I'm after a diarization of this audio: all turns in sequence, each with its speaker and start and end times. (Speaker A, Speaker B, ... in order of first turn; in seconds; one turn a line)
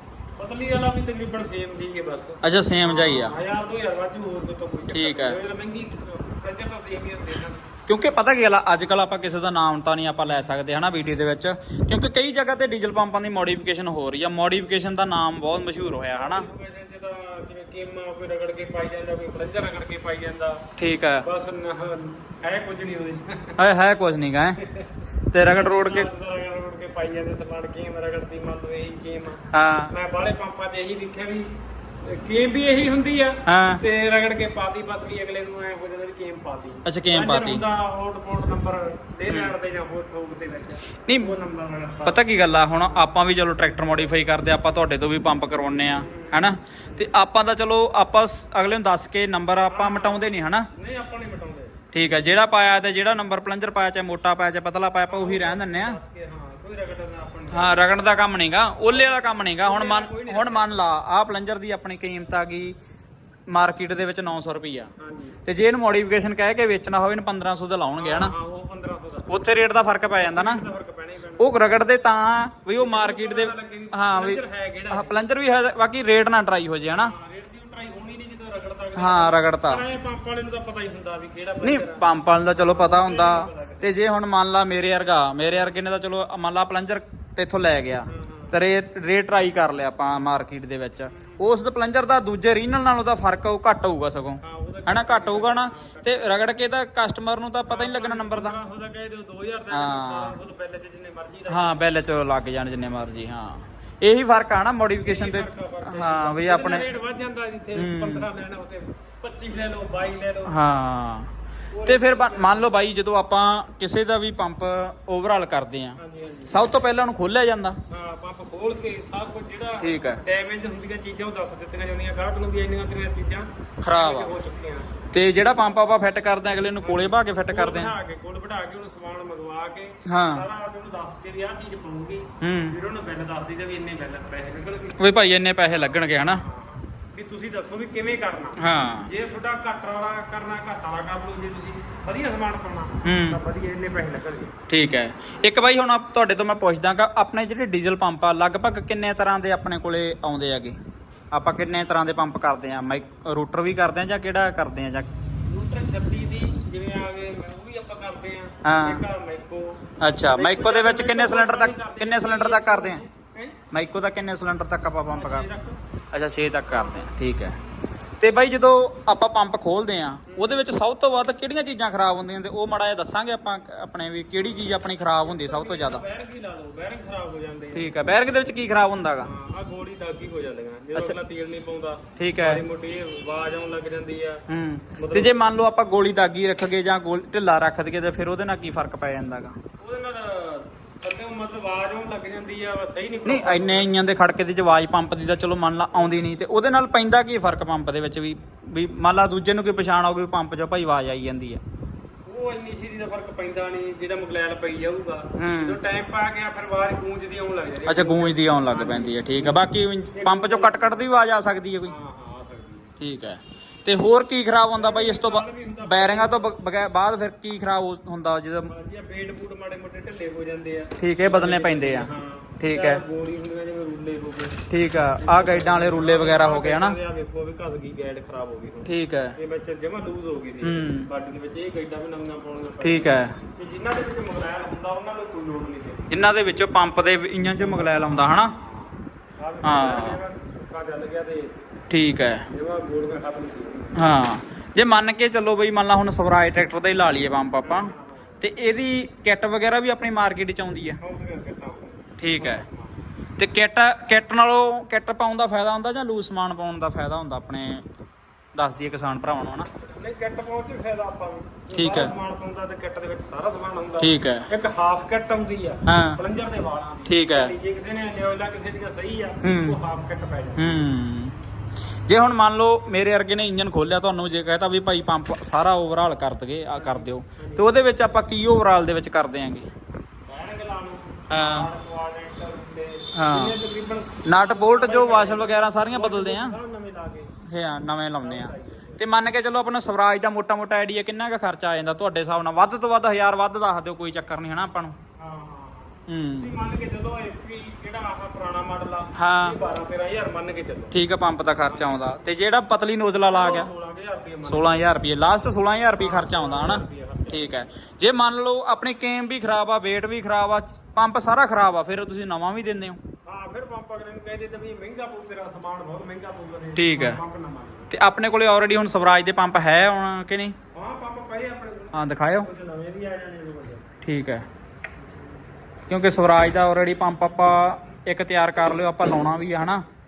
Speaker A: 0.4-7.7
Speaker B: 2.4-3.4
Speaker B: 4.9-5.4
Speaker B: 7.9-16.5
Speaker A: 16.1-20.6
Speaker B: 20.8-21.3
Speaker A: 21.2-23.6
Speaker B: 23.6-24.6
Speaker A: 24.6-42.2
Speaker B: 25.3-26.1
Speaker B: 29.5-29.9
Speaker B: 33.5-33.8
Speaker B: 36.9-37.6
Speaker B: 41.1-41.3
Speaker B: 42.0-50.7
Speaker A: 42.8-43.1
Speaker A: 45.9-47.1
Speaker A: 49.7-51.9
Speaker B: 51.9-56.0
Speaker A: 55.1-58.0
Speaker B: 57.5-62.8
Speaker A: 58.9-60.7
Speaker B: 63.5-64.9
Speaker A: 65.0-65.4
Speaker B: 65.5-68.3
Speaker A: 68.0-69.4
Speaker B: 69.3-70.7
Speaker A: 70.2-71.7
Speaker B: 71.4-77.1
Speaker A: 72.8-75.2
Speaker A: 77.0-83.9
Speaker B: 79.0-79.8
Speaker B: 81.6-98.6
Speaker A: 88.1-88.6
Speaker A: 91.1-91.4
Speaker A: 94.4-96.6
Speaker A: 97.7-101.9
Speaker B: 99.7-100.4
Speaker B: 101.5-106.9
Speaker A: 105.0-110.6
Speaker B: 107.8-108.3
Speaker B: 110.5-111.3
Speaker A: 111.7-112.8
Speaker B: 111.9-117.8
Speaker A: 116.0-116.7
Speaker A: 117.9-125.0
Speaker B: 119.8-120.2
Speaker B: 123.8-124.3
Speaker B: 125.1-127.9
Speaker A: 126.8-135.0
Speaker B: 130.1-130.5
Speaker B: 132.4-132.8
Speaker B: 135.0-136.4
Speaker A: 135.7-144.6
Speaker B: 138.6-139.1
Speaker B: 143.1-143.4
Speaker B: 144.7-150.8
Speaker B: 151.3-155.1
Speaker A: 155.5-163.6
Speaker B: 158.6-159.0
Speaker B: 160.0-163.0
Speaker B: 163.7-165.5
Speaker A: 165.1-165.8
Speaker B: 166.1-167.6
Speaker A: 166.7-167.1
Speaker B: 168.2-176.0
Speaker A: 170.3-170.6
Speaker A: 175.2-178.1
Speaker B: 177.8-179.3
Speaker A: 179.2-184.4
Speaker B: 182.2-182.6
Speaker B: 184.5-189.6
Speaker A: 185.0-185.3
Speaker A: 189.8-193.9
Speaker B: 193.2-201.6
Speaker A: 202.2-211.1
Speaker B: 205.3-205.8
Speaker B: 207.9-211.9
Speaker A: 211.8-213.0
Speaker B: 213.0-218.7
Speaker A: 214.7-216.5
Speaker A: 218.7-236.1
Speaker B: 221.0-223.0
Speaker B: 224.7-227.0
Speaker B: 228.8-229.4
Speaker B: 230.6-231.1
Speaker B: 232.8-233.4
Speaker B: 236.1-238.5
Speaker A: 237.6-241.6
Speaker B: 239.6-240.2
Speaker B: 241.9-242.5
Speaker A: 242.5-243.9
Speaker B: 243.9-251.0
Speaker A: 247.6-248.4
Speaker A: 251.0-253.0
Speaker B: 252.2-252.6
Speaker B: 253.4-257.9
Speaker B: 258.6-259.7
Speaker A: 259.8-270.8
Speaker B: 261.7-262.1
Speaker B: 264.0-264.5
Speaker B: 265.9-266.2
Speaker B: 267.1-267.5
Speaker B: 269.4-269.8
Speaker B: 270.6-271.4
Speaker B: 272.1-279.7
Speaker A: 276.7-277.7
Speaker A: 280.3-287.3
Speaker B: 281.3-281.7
Speaker B: 283.1-283.6
Speaker B: 284.2-286.6
Speaker B: 287.4-295.0
Speaker A: 288.2-289.0
Speaker A: 295.2-300.9
Speaker B: 296.1-296.5
Speaker B: 299.1-299.6
Speaker B: 300.9-303.7
Speaker A: 301.6-302.1
Speaker A: 303.3-304.9
Speaker B: 304.4-313.0
Speaker A: 306.0-307.6
Speaker A: 313.3-317.9
Speaker B: 316.8-317.2
Speaker B: 317.9-320.6
Speaker A: 320.7-323.9
Speaker B: 321.9-322.5
Speaker B: 324.0-324.5
Speaker B: 325.9-329.8